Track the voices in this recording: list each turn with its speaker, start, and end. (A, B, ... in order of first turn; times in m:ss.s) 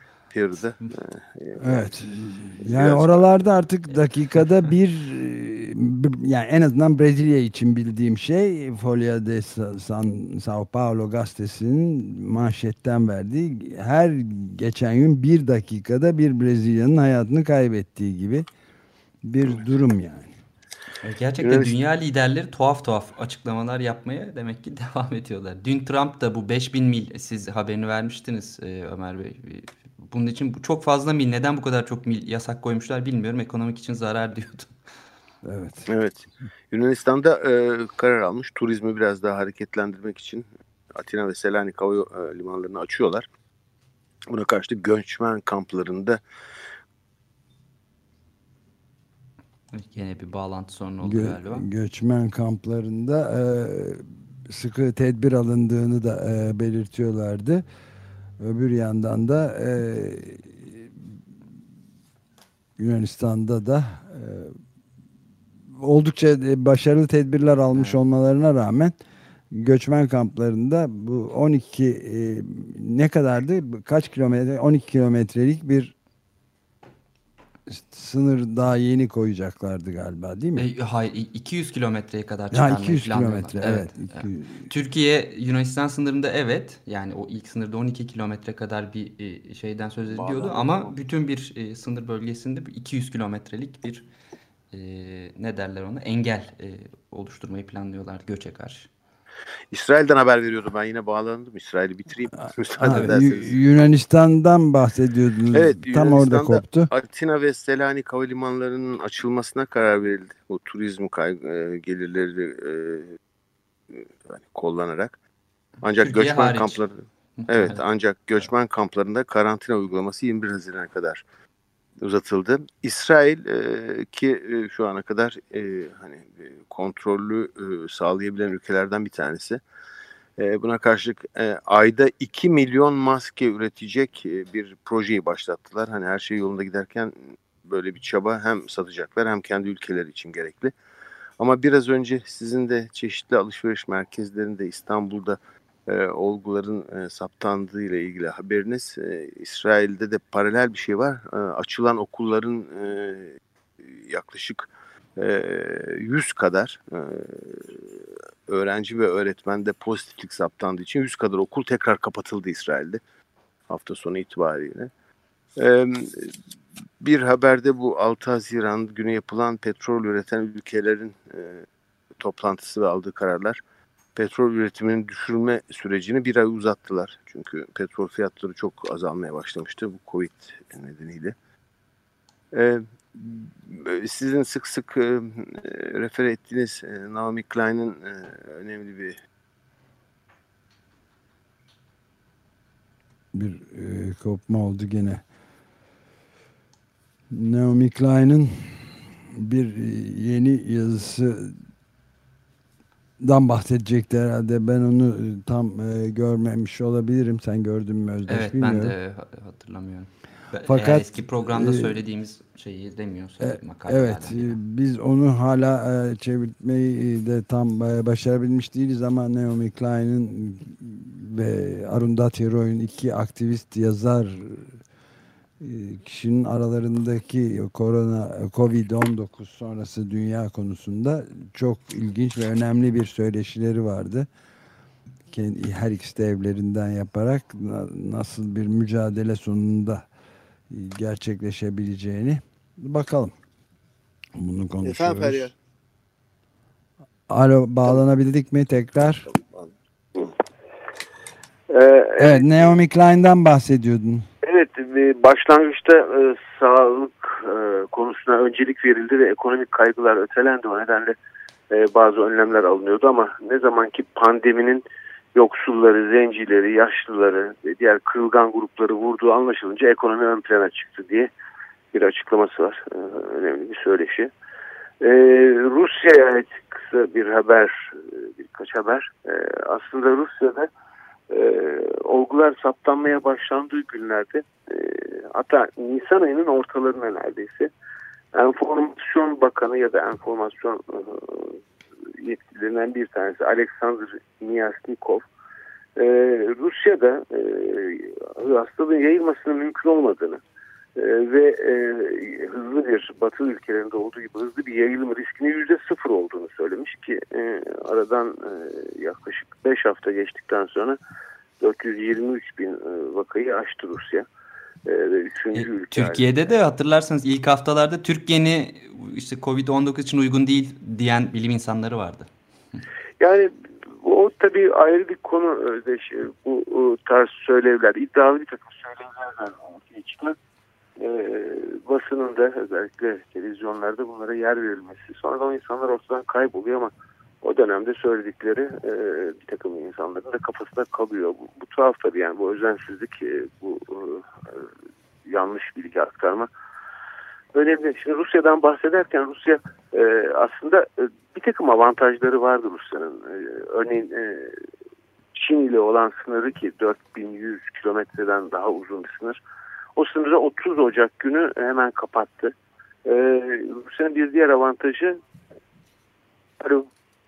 0:00.3-0:02.0 A
0:01.6-0:18.5 B
0:02.6-0:03.5 A
0:19.2-0:20.3 B
0:21.0-0:34.7 C
0:21.4-0:21.8 A
0:35.4-0:35.9 B
0:35.9-0:43.3 A
0:44.3-0:46.2 A
0:49.7-0:51.6 C
0:51.0-0:57.6 B
0:58.4-1:00.9 B
1:02.8-1:04.6 B
1:05.8-1:08.9 B
1:07.7-1:08.0 C
1:09.5-1:15.9 B
1:17.7-1:20.7 B
1:20.6-1:34.1 C
1:22.5-1:24.7 B
1:30.1-1:30.9 A
1:34.7-1:38.9 C
1:39.7-1:43.6 A
1:42.8-1:46.9 B
1:42.8-1:43.2 C
1:45.5-1:53.2 A
1:53.9-1:55.2 A
1:55.8-2:01.2 A
1:56.0-1:56.8 C
1:57.4-1:57.8 C
2:02.0-2:09.6 A
2:10.4-2:17.1 A
2:17.6-2:20.7 A
2:21.4-2:43.0 A
2:43.7-2:44.9 A
2:45.6-2:46.3 A
2:47.0-2:51.6 A
2:52.2-2:53.6 A
2:54.2-3:01.4 A
3:02.5-3:09.2 A
3:13.3-3:15.2 B
3:17.3-3:21.6 B
3:23.2-3:29.0 B
3:28.3-3:34.6 C
3:30.6-3:31.9 B
3:33.4-3:44.8 B
3:45.6-3:54.3 B
3:55.3-4:00.0 B
4:00.7-4:03.3 B
4:04.4-4:05.5 B
4:04.8-4:05.5 A
4:07.3-4:09.3 B
4:09.3-4:10.3 A
4:11.7-4:12.7 D
4:12.2-4:14.3 B
4:14.4-4:21.2 D
4:21.7-4:24.8 D
4:25.4-4:31.3 D
4:31.9-4:34.3 D
4:35.0-4:40.7 D
4:41.3-4:47.7 D
4:48.3-4:51.6 D
4:52.2-4:55.3 D
4:56.0-5:00.4 D
5:01.0-5:11.0 D
5:11.6-5:14.3 D
5:14.8-5:16.5 D
5:15.6-5:22.3 C
5:23.2-5:30.4 D
5:31.0-5:36.9 D
5:37.4-5:44.7 D
5:45.2-5:46.5 D
5:47.5-5:54.6 D
5:55.3-5:59.4 D
6:00.0-6:02.5 D
6:03.0-6:05.2 D
6:06.6-6:06.9 D